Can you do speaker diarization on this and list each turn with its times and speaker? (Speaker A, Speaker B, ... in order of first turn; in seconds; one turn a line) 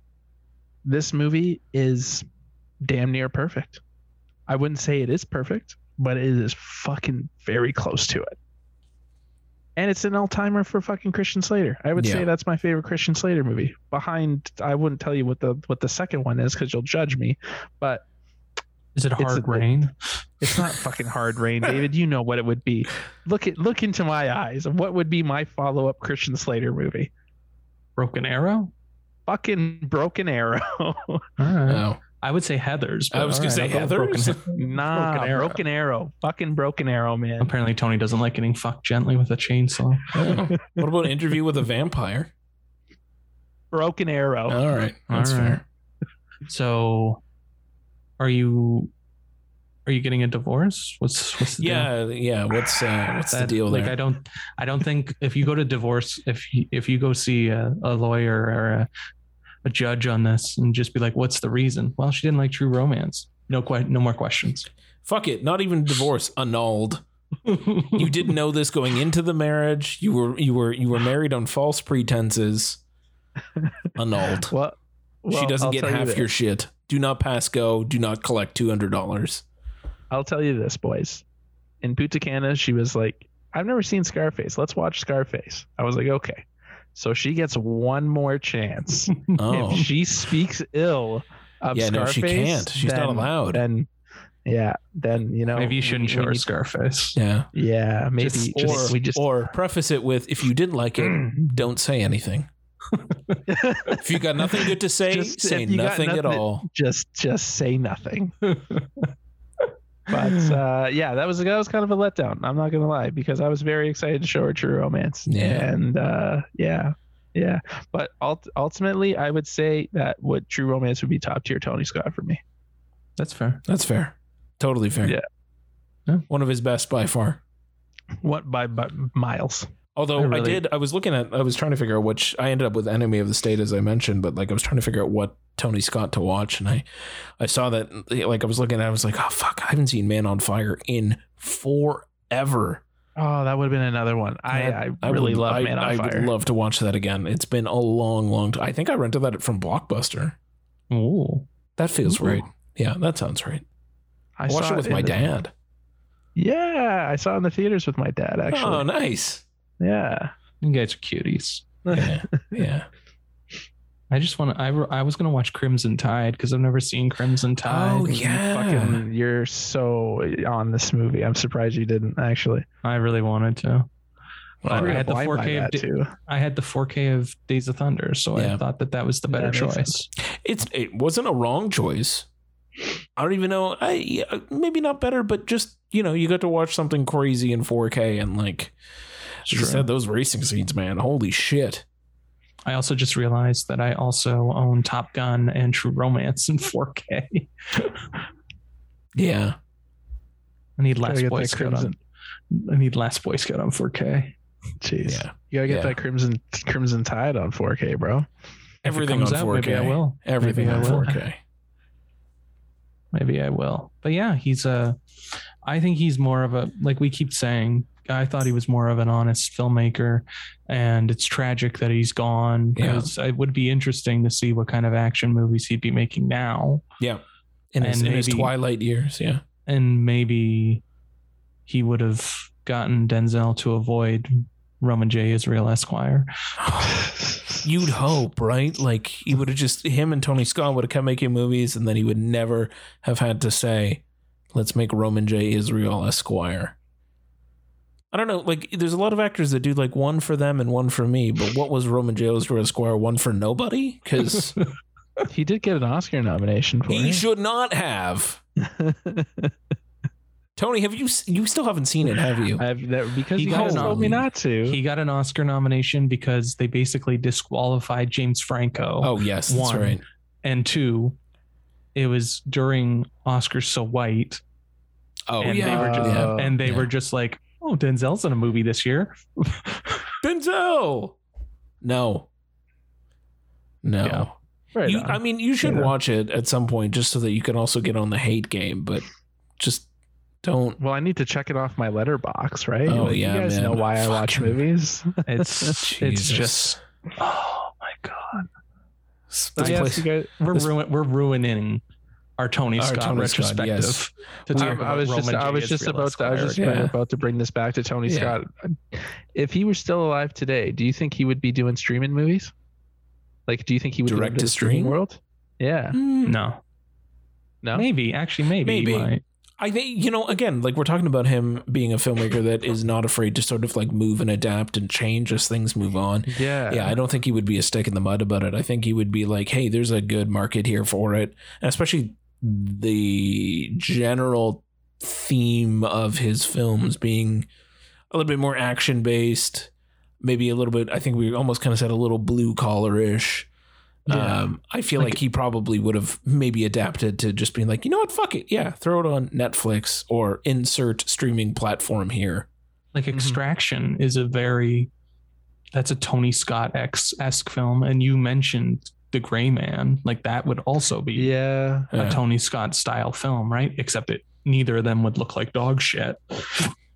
Speaker A: 0.8-2.2
Speaker A: 2.8-3.8
Speaker A: 4.5-8.3
Speaker A: 9.8-18.0
Speaker B: 11.9-12.3
Speaker C: 18.9-19.9
Speaker A: 19.2-19.7
Speaker A: 20.4-27.1
Speaker C: 28.0-28.7
Speaker A: 29.3-31.3
Speaker C: 31.4-35.6
Speaker B: 31.7-32.0
Speaker B: 33.1-34.4
Speaker A: 34.5-37.5
Speaker C: 37.4-40.3
Speaker B: 40.1-42.3
Speaker A: 43.7-44.6
Speaker B: 44.5-45.6
Speaker C: 45.1-45.6
Speaker C: 46.5-47.2
Speaker C: 48.2-48.9
Speaker C: 49.9-51.9
Speaker B: 51.6-53.9
Speaker C: 53.3-58.9
Speaker C: 59.6-64.7
Speaker B: 65.0-67.0
Speaker C: 67.5-68.1
Speaker B: 67.9-72.8
Speaker B: 74.0-74.5
Speaker A: 74.5-76.3
Speaker B: 75.3-79.4
Speaker A: 80.1-81.2
Speaker A: 81.8-93.9
Speaker C: 89.2-89.8
Speaker B: 89.3-89.9
Speaker B: 91.7-93.6
Speaker A: 94.5-96.5
Speaker C: 95.5-97.2
Speaker B: 97.2-97.5
Speaker A: 97.5-99.3
Speaker B: 98.2-102.5
Speaker C: 98.2-99.0
Speaker A: 101.0-101.4
Speaker C: 102.9-103.4
Speaker A: 103.5-104.1
Speaker B: 103.9-106.7
Speaker A: 104.6-108.3
Speaker C: 108.4-109.1
Speaker A: 110.1-122.4
Speaker B: 115.3-115.7
Speaker C: 123.2-123.6
Speaker B: 123.7-125.2
Speaker B: 126.3-127.4
Speaker A: 128.2-129.7
Speaker B: 129.9-136.8
Speaker C: 130.2-130.6
Speaker B: 137.4-142.8
Speaker A: 143.2-146.3
Speaker B: 145.0-150.3
Speaker C: 150.9-151.5
Speaker B: 151.8-153.6
Speaker A: 154.4-155.2
Speaker B: 154.5-155.5
Speaker A: 156.3-158.8
Speaker B: 158.5-159.4
Speaker A: 159.8-160.3
Speaker C: 160.6-161.7
Speaker A: 161.9-162.7
Speaker B: 161.9-162.9
Speaker C: 164.1-168.1
Speaker B: 167.6-169.0
Speaker A: 168.1-172.7
Speaker C: 172.8-173.9
Speaker B: 174.6-175.0
Speaker A: 174.6-176.1
Speaker C: 174.7-180.1
Speaker B: 178.3-178.6
Speaker A: 179.3-179.9
Speaker B: 180.2-182.3
Speaker B: 183.2-188.7
Speaker B: 189.4-191.8
Speaker C: 189.5-189.8
Speaker C: 192.7-198.0
Speaker B: 199.1-199.6
Speaker C: 200.8-201.9
Speaker A: 201.0-201.9
Speaker C: 202.5-204.3
Speaker A: 204.8-208.3
Speaker B: 205.1-205.9
Speaker C: 208.8-211.1
Speaker B: 208.8-211.4
Speaker A: 210.6-211.2
Speaker C: 213.1-215.0
Speaker C: 215.6-226.8
Speaker B: 222.8-223.1
Speaker B: 227.0-229.4
Speaker C: 227.8-228.5
Speaker C: 229.7-230.8
Speaker C: 231.7-236.3
Speaker B: 236.6-237.0
Speaker B: 237.6-244.0
Speaker B: 244.5-246.7
Speaker B: 248.1-254.6
Speaker A: 255.3-257.2
Speaker B: 256.9-258.4
Speaker A: 258.6-259.5
Speaker B: 260.6-262.6
Speaker A: 262.6-264.8
Speaker C: 263.4-271.2
Speaker B: 263.5-264.2
Speaker B: 269.0-270.0
Speaker C: 271.9-274.4
Speaker B: 275.3-276.9
Speaker C: 275.4-280.0
Speaker A: 275.6-276.6
Speaker B: 280.2-281.2
Speaker B: 281.8-282.3
Speaker B: 283.8-284.3
Speaker C: 284.0-284.3
Speaker A: 284.7-285.9
Speaker B: 284.8-289.0
Speaker B: 289.6-289.9
Speaker B: 290.4-290.8
Speaker A: 290.8-295.8
Speaker B: 292.9-294.6
Speaker C: 295.2-298.5
Speaker B: 295.7-296.8
Speaker C: 299.3-301.8
Speaker B: 299.5-300.7
Speaker A: 299.6-300.4
Speaker C: 302.4-306.7
Speaker B: 302.8-304.0
Speaker A: 304.5-312.5
Speaker B: 306.6-306.9
Speaker B: 308.1-308.4
Speaker A: 313.5-316.0
Speaker B: 314.1-314.9
Speaker B: 315.9-316.4
Speaker C: 316.2-316.6
Speaker C: 317.7-319.2
Speaker B: 318.6-337.5
Speaker A: 326.3-327.0
Speaker B: 338.1-343.5
Speaker B: 344.1-352.5
Speaker A: 344.1-344.4
Speaker C: 352.9-354.9
Speaker A: 353.1-353.4
Speaker C: 355.7-361.3
Speaker A: 361.1-361.9
Speaker B: 361.9-362.2
Speaker C: 361.9-366.7